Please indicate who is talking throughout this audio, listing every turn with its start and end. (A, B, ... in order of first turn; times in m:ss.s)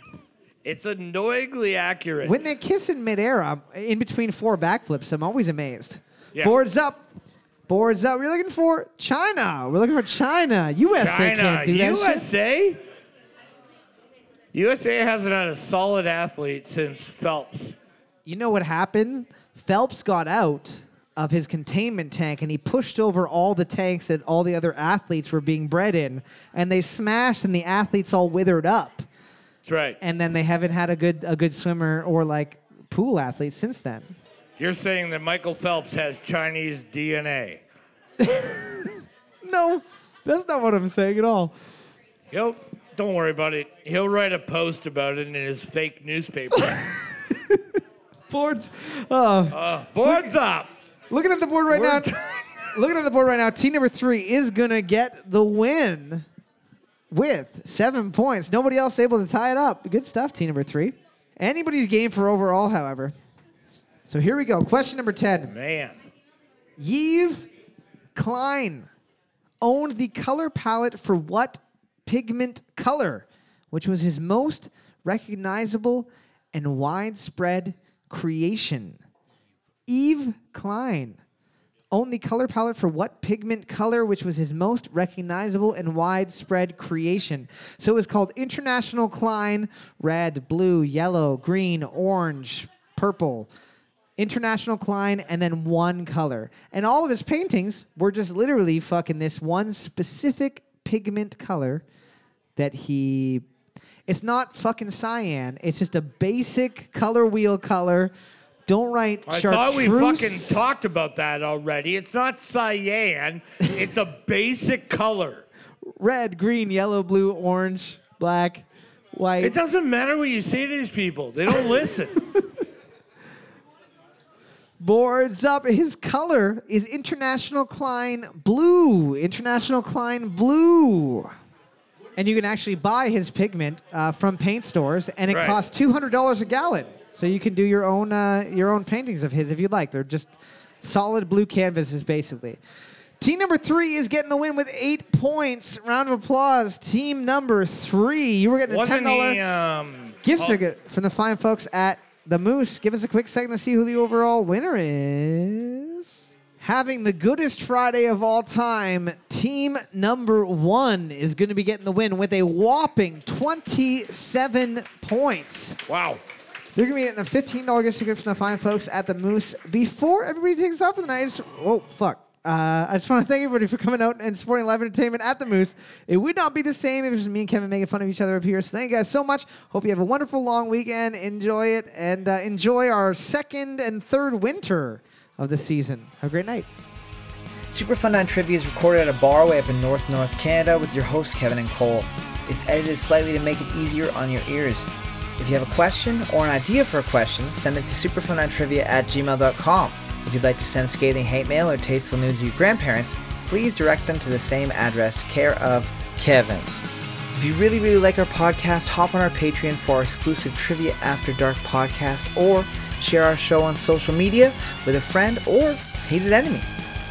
0:00.6-0:02.4 A
0:02.2-0:07.0 B
0:07.7-0:12.3 B
0:10.9-0:12.8 A
0:14.5-0:17.8 A
0:18.2-0:29.1 B
0:29.6-0:30.0 A
0:30.0-0:34.1 B
0:34.6-0:37.6 A
0:38.2-0:41.5 B
0:42.3-0:46.8 A
0:46.6-0:47.6 B
0:48.3-0:50.3 B
0:49.5-0:50.7 A
0:51.1-0:52.1 B
0:51.7-0:52.4 A
0:52.7-0:56.2 B
0:57.1-1:03.1 B
1:04.0-1:05.5 B
1:05.5-1:06.0 A
1:06.8-1:07.5 B
1:08.1-1:08.9 B
1:09.6-1:19.0 B
1:19.9-1:21.2 B
1:21.9-1:33.5 B
1:34.2-1:41.8 B
1:42.6-1:43.4 B
1:44.1-1:48.1 B
1:48.7-1:50.6 B
1:49.3-1:55.4 A
1:55.8-1:59.6 B
1:59.4-2:02.2 A
2:01.5-2:02.6 B
2:04.8-2:11.3 B
2:12.2-2:22.6 B
2:15.3-2:15.6 A
2:23.2-2:29.4 B
2:28.7-2:30.6 A
2:30.2-2:45.8 B
2:45.9-2:46.2 A
2:46.8-3:06.7 B
3:07.7-3:26.7 C
3:27.3-3:36.7 C